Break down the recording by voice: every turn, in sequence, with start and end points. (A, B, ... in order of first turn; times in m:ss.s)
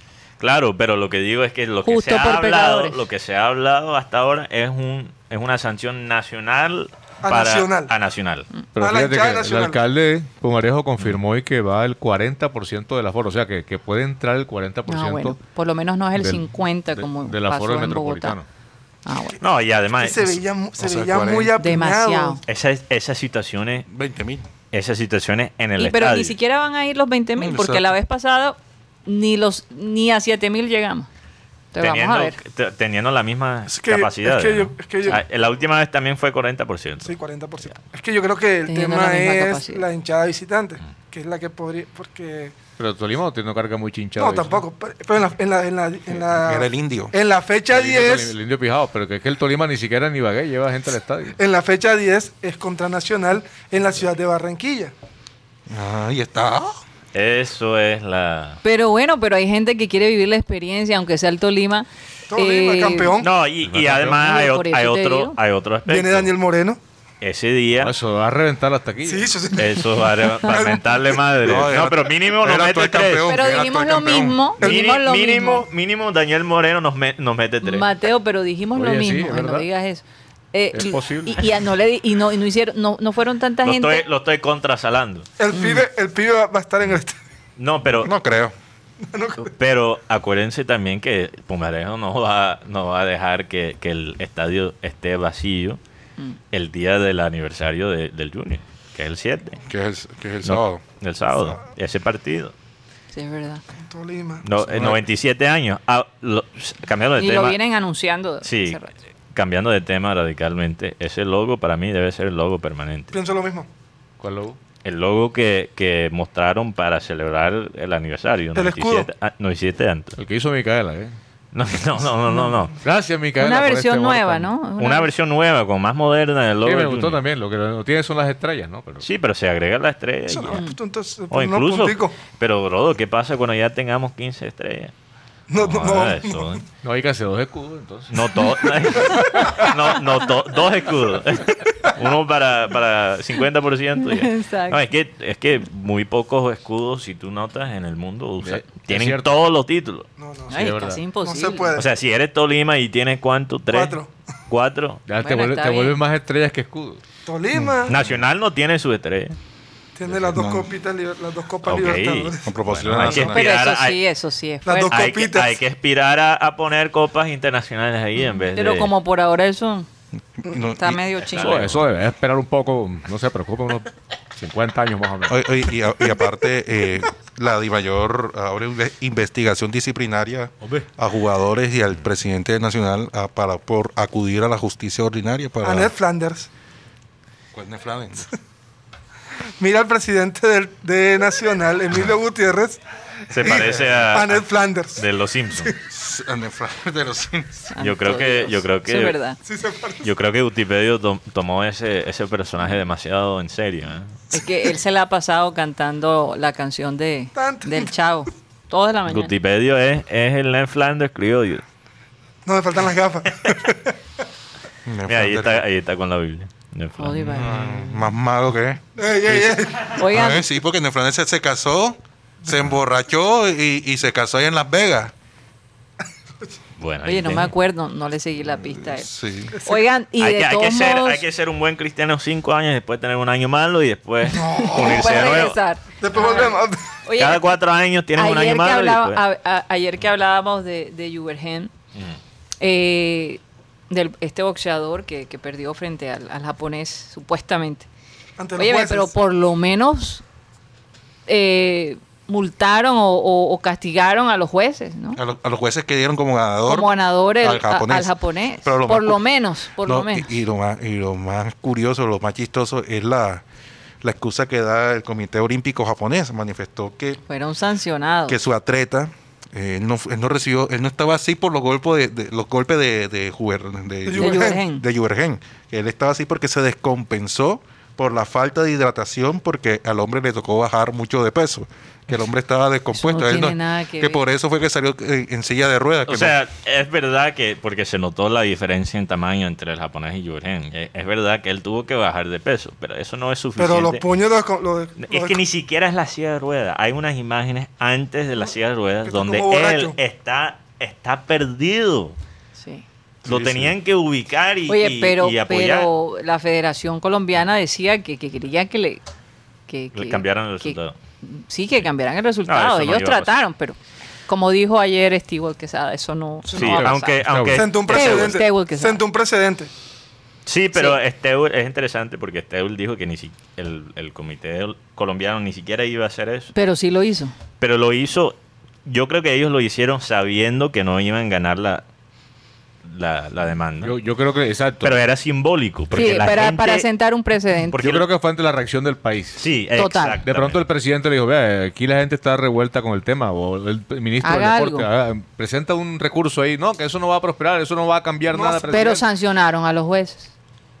0:00.4-0:08.5 A
0:01.8-0:03.0 B
0:07.2-0:07.9 C
0:08.7-0:15.4 D
0:08.8-0:09.8 C
0:14.9-0:18.4 B
0:16.1-0:18.4 D
0:19.0-0:19.4 B
0:19.4-0:20.4 A
0:20.0-0:22.4 C
0:20.8-0:21.5 E
0:21.6-0:22.4 B
0:22.5-0:23.9 A
0:23.9-0:24.4 E
0:24.7-0:26.3 A
0:25.8-0:31.1 B
0:27.4-0:27.8 E
0:31.7-0:32.4 B
0:31.8-0:37.2 A
0:33.7-0:35.2 C
0:37.0-0:42.5 C
0:38.7-0:39.8 B
0:42.8-0:44.6 D
0:44.2-0:48.3 C
0:46.3-0:47.1 E
0:47.7-0:51.4 D
0:51.4-0:54.9 C
0:55.7-0:56.8 E
0:57.1-0:58.6 A
0:58.6-1:03.1 B
1:02.3-1:03.3 C
1:03.2-1:06.3 A
1:03.6-1:04.2 D
1:04.1-1:05.4 B
1:05.9-1:06.8 C
1:07.2-1:07.9 A
1:07.8-1:09.3 D
1:09.0-1:10.8 C
1:09.6-1:13.3 A
1:11.4-1:14.5 E
1:13.3-1:15.6 B
1:14.6-1:15.0 C
1:14.6-1:17.9 A
1:17.6-1:24.0 B
1:18.8-1:19.7 D
1:20.7-1:21.4 D
1:23.6-1:25.3 A
1:25.4-1:27.2 C
1:25.5-1:25.8 B
1:27.6-1:28.1 A
1:28.0-1:28.5 E
1:29.1-1:29.5 C
1:29.4-1:35.8 A
1:36.5-1:39.6 A
1:39.7-1:40.8 E
1:40.4-1:42.5 A
1:43.1-1:43.6 B
1:43.8-1:44.4 C
1:44.4-1:47.6 A
1:44.7-1:45.0 E
1:47.2-1:48.9 B
1:48.4-1:48.8 A
1:49.3-1:53.2 A
1:53.1-1:53.7 C
1:54.2-1:54.6 D
1:54.8-2:00.2 A
1:58.5-1:59.1 C
2:00.2-2:01.2 D
2:01.5-2:02.8 A
2:02.8-2:04.5 D
2:03.4-2:05.1 B
2:04.8-2:07.2 A
2:06.6-2:09.0 D
2:09.0-2:10.6 A
2:10.3-2:12.1 C
2:11.3-2:14.9 A
2:15.5-2:16.6 C
2:15.6-2:16.6 A
2:16.8-2:18.4 D
2:18.1-2:30.1 A
2:24.0-2:24.8 B
2:28.4-2:29.4 D
2:30.2-2:31.9 C
2:30.5-2:31.7 B
2:30.5-2:31.0 D
2:31.7-2:34.0 A
2:33.7-2:34.1 C
2:34.5-2:35.0 A
2:35.0-2:37.0 D
2:35.2-2:36.0 B
2:37.2-2:37.9 C
2:37.9-2:39.4 A
2:40.0-2:43.3 C
2:40.1-2:40.7 E
2:41.6-2:44.0 A
2:42.4-2:43.4 E
2:43.3-2:45.0 B
2:44.6-2:45.6 C
2:44.9-2:48.9 A
2:48.5-2:49.9 B
2:50.4-2:51.0 E
2:50.7-2:51.6 B
2:51.3-2:51.8 A
2:51.4-2:55.4 D
2:55.3-3:05.9 E
3:05.6-3:06.5 C
3:07.5-3:08.3 E
3:09.6-3:12.8 C
3:13.3-3:15.7 A
3:13.4-3:15.8 C
3:15.9-3:17.7 E
3:17.7-3:19.4 B
3:17.8-3:19.2 A
3:19.4-3:20.0 C
3:20.0-3:24.1 A
3:24.3-3:29.3 B
3:27.3-3:27.9 C
3:29.1-3:31.6 A
3:32.4-3:33.9 C
3:34.8-3:35.6 E
3:35.0-3:37.4 A
3:37.0-3:37.6 B
3:37.2-3:45.1 E
3:39.0-3:39.9 C
3:40.0-3:40.4 B
3:46.8-3:47.5 A
3:47.0-3:49.1 B
3:48.9-3:49.5 E
3:49.5-3:49.8 C
3:49.6-3:51.2 B
3:50.2-3:55.6 A
3:54.3-3:55.5 C
3:54.6-3:57.5 B
3:56.0-3:56.8 C
3:57.2-3:59.2 A
3:58.2-4:01.7 B
4:02.6-4:07.9 B
4:08.4-4:09.1 C
4:08.6-4:10.2 B
4:11.3-4:15.2 B
4:15.1-4:19.2 E
4:16.6-4:20.3 B
4:19.8-4:23.4 E
4:24.0-4:27.2 E
4:27.3-4:28.4 B
4:28.3-4:46.4 E
4:34.0-4:34.6 C
4:34.1-4:34.8 B
4:42.9-4:44.2 B
4:46.1-4:54.0 A
4:53.6-4:55.4 C
4:55.0-5:02.2 A
4:59.0-5:00.0 C
5:02.6-5:02.8 B
5:03.2-5:03.7 E
5:03.2-5:05.9 A
5:04.7-5:09.0 B
5:09.7-5:17.2 B
5:09.9-5:11.0 A
5:12.4-5:13.3 A
5:16.5-5:16.8 C
5:16.5-5:18.4 A
5:16.7-5:17.6 D
5:17.5-5:19.7 C
5:17.9-5:19.0 B
5:20.4-5:26.5 A
5:20.7-5:21.0 B
5:26.5-5:27.3 B
5:27.6-5:31.8 A
5:32.8-5:34.0 A
5:33.8-5:35.0 D
5:34.8-5:36.9 A
5:35.9-5:36.3 D
5:35.9-5:37.8 B
5:37.7-5:38.0 A
5:37.8-5:39.5 D
5:39.4-5:40.6 A
5:39.8-5:40.2 B
5:40.2-5:49.0 D
5:44.2-5:44.9 B
5:48.3-5:49.0 C
5:48.7-5:50.3 B